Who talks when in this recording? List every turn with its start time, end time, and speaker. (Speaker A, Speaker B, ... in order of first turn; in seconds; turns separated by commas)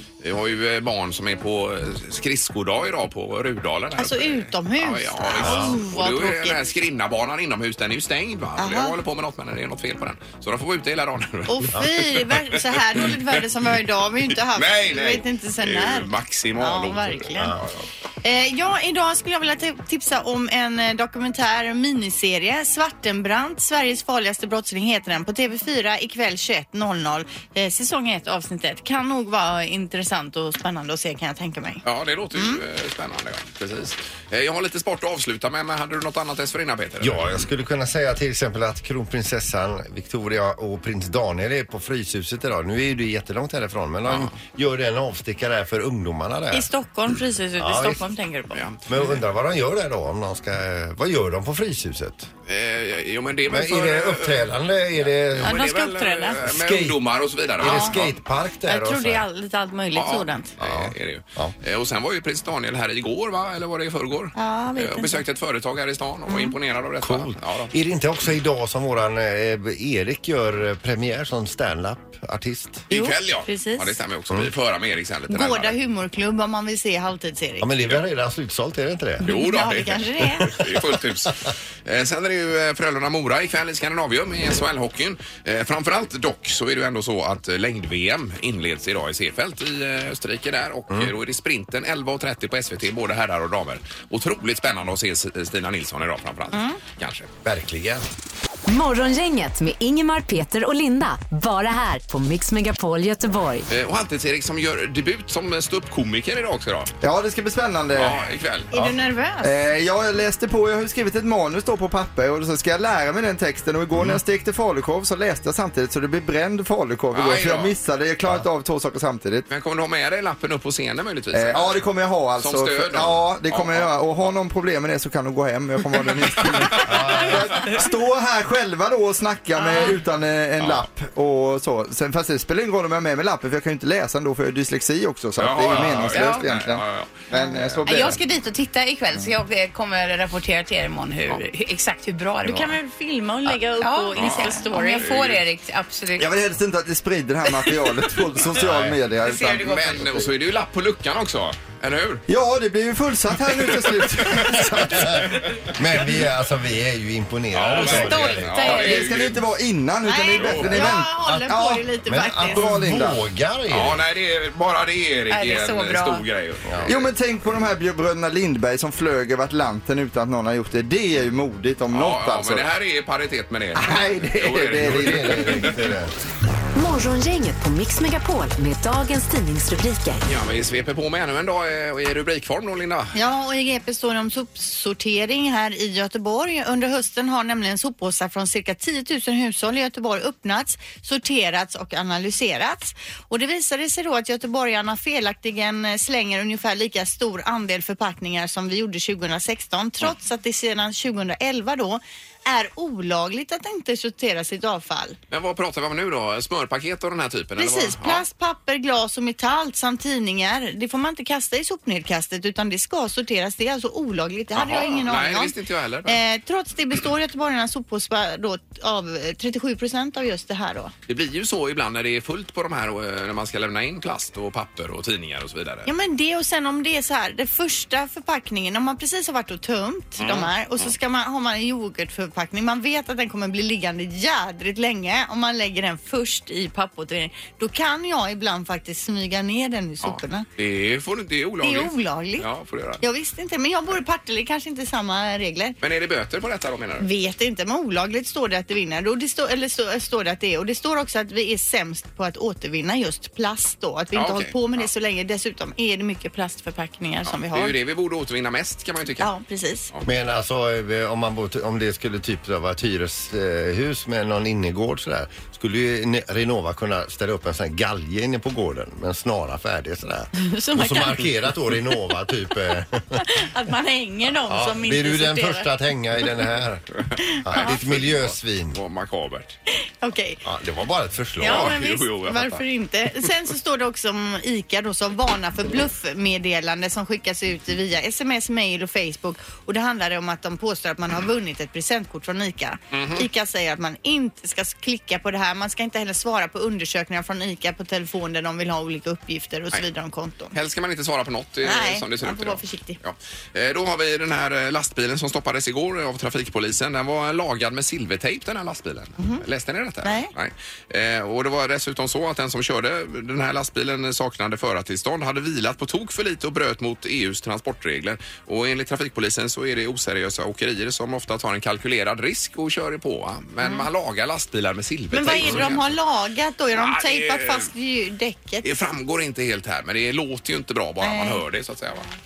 Speaker A: 0.2-12.3, Speaker B: 4.0-6.6, Speaker C: 5.4-5.8, Speaker B: 8.6-8.9, Speaker B: 11.5-17.5, Speaker A: 14.5-17.8, Speaker C: 17.4-17.6, Speaker B: 18.2-31.8, Speaker A: 31.8-37.4, Speaker B: 32.3-32.6, Speaker C: 37.0-46.7, Speaker A: 44.1-44.3, Speaker B: 46.5-48.6, Speaker C: 47.6-48.0, Speaker A: 48.5-49.1, Speaker C: 48.9-52.3, Speaker A: 52.5-54.5, Speaker C: 53.5-55.5, Speaker A: 55.3-58.1, Speaker B: 55.4-56.4, Speaker C: 56.4-57.0, Speaker C: 57.6-59.2, Speaker B: 57.6-58.0, Speaker B: 58.7-60.5, Speaker A: 59.9-67.7, Speaker C: 60.6-61.5, Speaker B: 64.3-65.2, Speaker B: 66.3-66.5, Speaker C: 67.0-72.8, Speaker B: 72.9-74.0, Speaker A: 72.9-75.8, Speaker B: 75.3-77.7, Speaker C: 77.6-79.3, Speaker B: 79.2-80.5, Speaker A: 79.2-97.3, Speaker B: 96.5-96.8, Speaker C: 97.4-98.1, Speaker D: 98.7-103.7, Speaker A: 103.7-106.9, Speaker E: 107.0-108.2, Speaker A: 107.9-108.7, Speaker B: 108.7-109.5, Speaker E: 108.7-119.5, Speaker A: 117.1-117.7, Speaker A: 119.5-121.8, Speaker E: 121.3-138.2, Speaker A: 122.4-123.9, Speaker A: 126.7-127.3, Speaker C: 126.8-127.5, Speaker B: 129.6-129.9, Speaker A: 130.6-130.8, Speaker A: 135.4-137.8, Speaker F: 135.8-136.5, Speaker F: 137.8-142.8, Speaker B: 142.4-145.0, Speaker F: 143.8-146.3, Speaker A: 144.2-145.4, Speaker E: 146.2-149.8, Speaker A: 148.6-148.9, Speaker F: 149.2-150.2, Speaker A: 149.6-152.2, Speaker E: 152.3-155.5, Speaker A: 154.2-154.6, Speaker C: 155.7-158.7, Speaker A: 157.5-159.4, Speaker F: 157.9-158.8, Speaker E: 158.0-161.8, Speaker B: 160.0-162.7, Speaker A: 160.3-160.9, Speaker C: 161.2-164.0, Speaker E: 162.4-163.2, Speaker A: 163.7-167.1, Speaker F: 165.3-166.2, Speaker C: 166.6-166.9, Speaker E: 166.9-172.7, Speaker A: 171.9-175.9, Speaker C: 173.7-176.1, Speaker E: 174.6-175.4, Speaker D: 176.7-180.2, Speaker A: 180.2-183.2, Speaker B: 183.1-205.2, Speaker A: 205.3-208.2, Speaker B: 207.6-215.5, Speaker A: 214.5-216.2, Speaker B: 216.1-220.9, Speaker A: 221.1-225.9, Speaker B: 225.8-240.5, Speaker A: 230.2-230.9, Speaker A: 240.0-243.0, Speaker B: 241.6-242.5, Speaker B: 243.0-245.8, Speaker A: 245.8-247.1, Speaker B: 247.0-257.7, Speaker A: 254.1-254.8, Speaker A: 257.2-259.3, Speaker B: 259.2-259.9, Speaker C: 260.0-273.2, Speaker B: 270.3-271.3, Speaker B: 273.2-275.7, Speaker C: 274.5-276.9, Speaker B: 277.2-277.7, Speaker C: 277.4-278.8, Speaker A: 277.5-279.6, Speaker B: 280.0-280.4, Speaker C: 280.4-281.8, Speaker B: 281.4-300.5, Speaker A: 281.4-282.6, Speaker A: 292.9-293.2, Speaker A: 300.5-325.9, Speaker B: 301.6-303.0, Speaker B: 309.2-309.4, Speaker B: 310.0-310.3, Speaker B: 323.6-323.9, Speaker B: 325.1-328.6, Speaker A: 326.7-327.7, Speaker A: 328.6-332.1, Speaker B: 331.0-331.4